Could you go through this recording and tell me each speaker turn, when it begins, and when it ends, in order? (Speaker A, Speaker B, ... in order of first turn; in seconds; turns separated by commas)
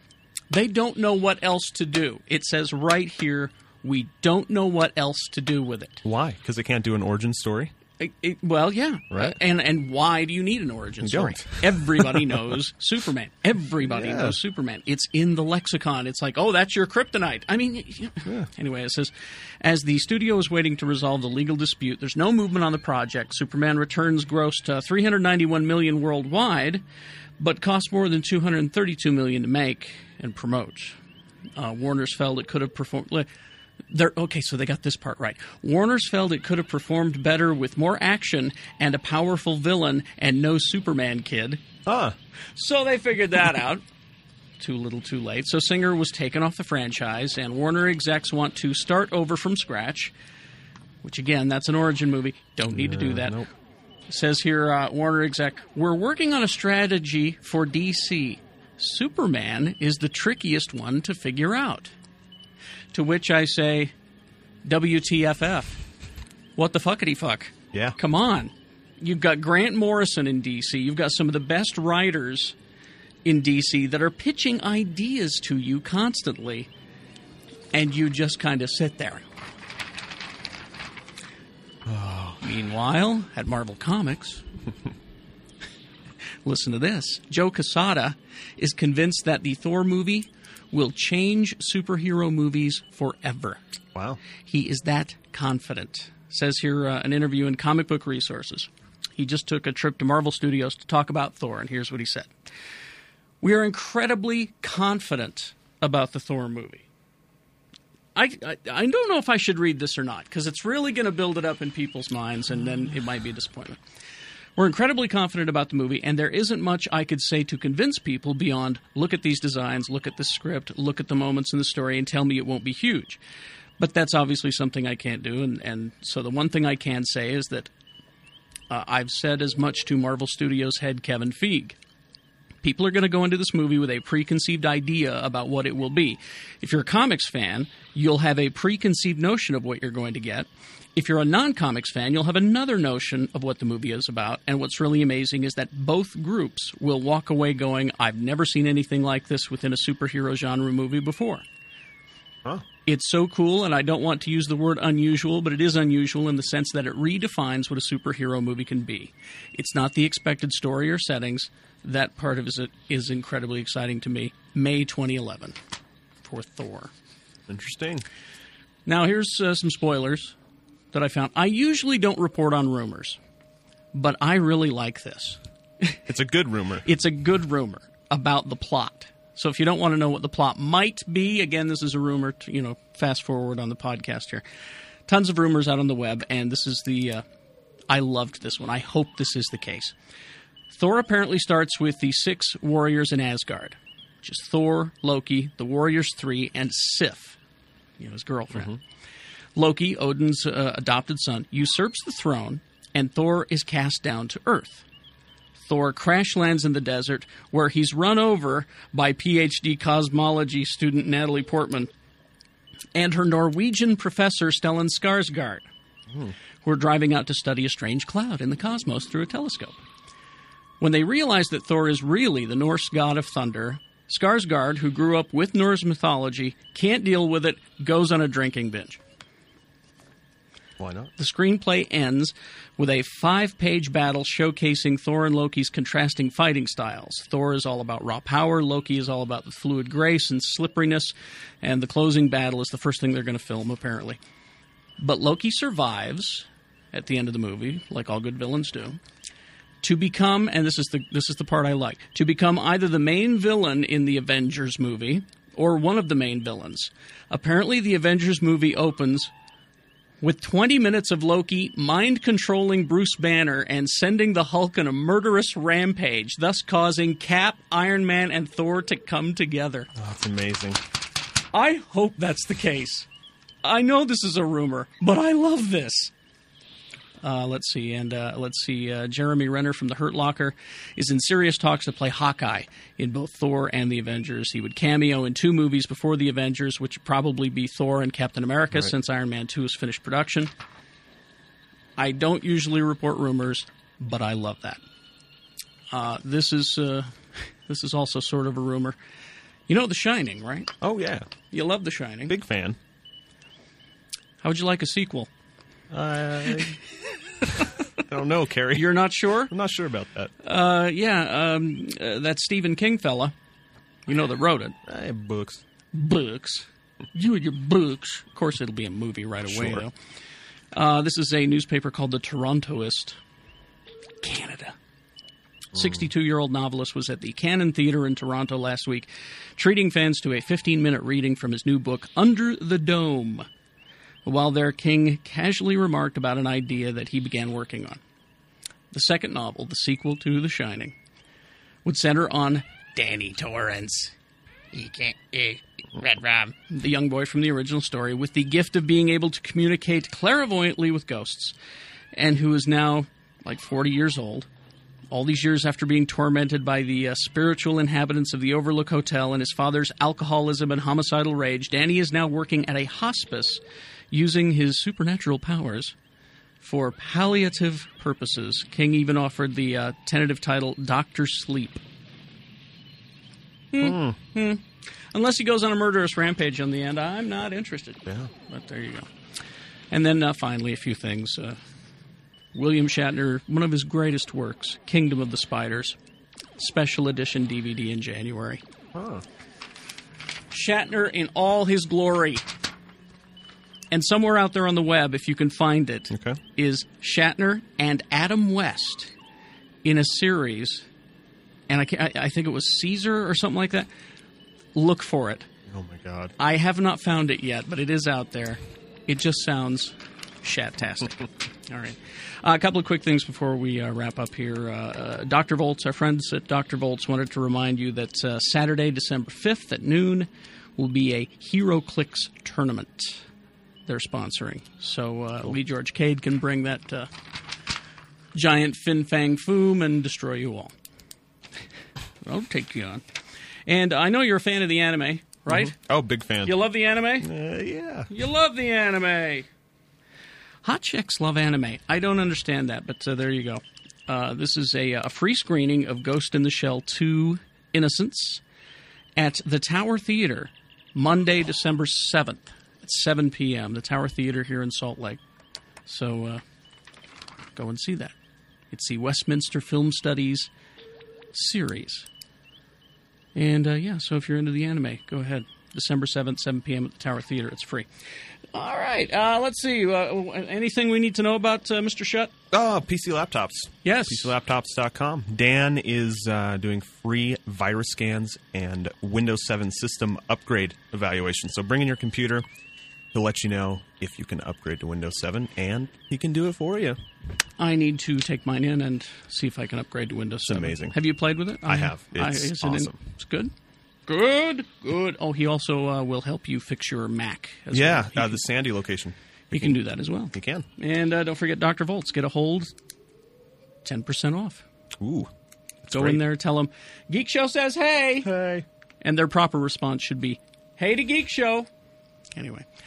Speaker A: 0.5-6.0, Speaker B: 6.0-7.7, Speaker A: 8.0-26.8, Speaker B: 9.1-9.4, Speaker B: 11.0-12.4, Speaker B: 13.9-14.4, Speaker A: 27.4-31.0, Speaker A: 31.6-33.3, Speaker A: 33.9-41.6, Speaker B: 41.9-42.1, Speaker A: 42.6-43.8, Speaker A: 44.6-50.1, Speaker A: 51.0-53.5, Speaker B: 52.7-53.5, Speaker A: 54.1-61.9, Speaker A: 62.9-63.9, Speaker A: 64.7-65.8, Speaker A: 66.6-72.5, Speaker A: 73.2-76.7, Speaker A: 77.7-79.2, Speaker B: 81.9-82.4, Speaker A: 82.4-84.4, Speaker A: 86.5-93.6, Speaker B: 94.0-94.2, Speaker A: 94.5-102.3, Speaker A: 103.4-106.8, Speaker A: 108.2-113.8, Speaker A: 114.6-123.2, Speaker A: 123.8-127.7, Speaker A: 128.7-131.8, Speaker A: 132.6-151.4, Speaker A: 152.9-165.6, Speaker A: 166.2-166.9, Speaker B: 167.5-168.1, Speaker A: 168.9-170.3, Speaker A: 170.9-173.2, Speaker A: 173.9-176.0, Speaker B: 176.1-176.9, Speaker A: 176.8-184.4, Speaker A: 185.1-187.2, Speaker A: 187.9-189.9, Speaker A: 190.7-197.4, Speaker A: 198.0-198.7, Speaker B: 198.5-198.8, Speaker A: 199.6-204.8, Speaker A: 205.6-211.9, Speaker A: 212.9-215.7, Speaker A: 216.6-219.8, Speaker A: 220.8-229.0, Speaker B: 230.8-231.1, Speaker A: 231.2-244.2, Speaker A: 245.0-249.0, Speaker A: 249.8-259.3, Speaker A: 260.2-269.9, Speaker B: 270.0-270.8, Speaker A: 271.5-273.1, Speaker A: 273.6-276.1, Speaker A: 277.2-290.5, Speaker A: 292.0-294.8, Speaker A: 295.9-299.0, Speaker A: 299.7-300.7, Speaker B: 300.8-301.3, Speaker A: 301.5-302.4, Speaker B: 302.3-302.8, Speaker A: 304.4-305.3, Speaker B: 305.9-306.8, Speaker B: 308.0-308.9, Speaker A: 308.7-309.5, Speaker B: 309.5-310.3, Speaker A: 310.4-313.3, Speaker A: 314.1-314.8, Speaker B: 314.9-315.6, Speaker A: 315.9-319.9, Speaker B: 319.5-319.8, Speaker A: 320.7-323.2, Speaker A: 324.2-324.8, Speaker B: 325.8-326.0, Speaker A: 325.8-333.5, Speaker A: 334.2-338.0, Speaker A: 338.9-340.9, Speaker A: 341.9-344.1, Speaker A: 344.7-351.6, Speaker A: 352.1-354.5, Speaker A: 355.1-365.9, Speaker A: 366.6-371.8, Speaker A: 373.7-379.1, Speaker B: 373.8-374.2, Speaker A: 379.9-381.6, Speaker A: 382.6-386.0, Speaker A: 386.6-388.6, Speaker B: 388.9-389.2, Speaker A: 390.5-392.4, Speaker A: 393.9-399.1, Speaker B: 396.1-396.4, Speaker A: 399.8-400.9, Speaker A: 401.7-403.9, Speaker A: 404.8-405.5, Speaker B: 405.7-406.3, Speaker A: 406.4-423.2, Speaker A: 423.9-427.1, Speaker A: 428.3-430.7, Speaker A: 432.2-433.0, Speaker A: 433.7-435.8, Speaker B: 435.5-436.6, Speaker A: 436.4-437.3, Speaker B: 437.2-438.1, Speaker A: 438.1-439.5, Speaker A: 440.6-448.4, Speaker A: 449.2-455.2, Speaker A: 455.9-456.4, Speaker A: 457.6-458.1, Speaker A: 458.7-460.5, Speaker A: 461.3-462.1, Speaker A: 463.4-467.9, Speaker A: 468.5-472.3, Speaker B: 472.5-482.4, Speaker A: 473.8-474.3, Speaker B: 483.1-487.0, Speaker A: 487.6-493.5, Speaker B: 490.5-491.0, Speaker B: 491.6-493.0, Speaker A: 494.1-498.4, Speaker B: 497.7-499.8, Speaker A: 499.5-502.7, Speaker B: 500.3-500.6, Speaker A: 503.8-504.6, Speaker B: 505.0-505.3, Speaker B: 505.9-506.2, Speaker A: 505.9-508.3, Speaker B: 508.3-508.6, Speaker A: 509.0-511.7, Speaker A: 512.4-512.6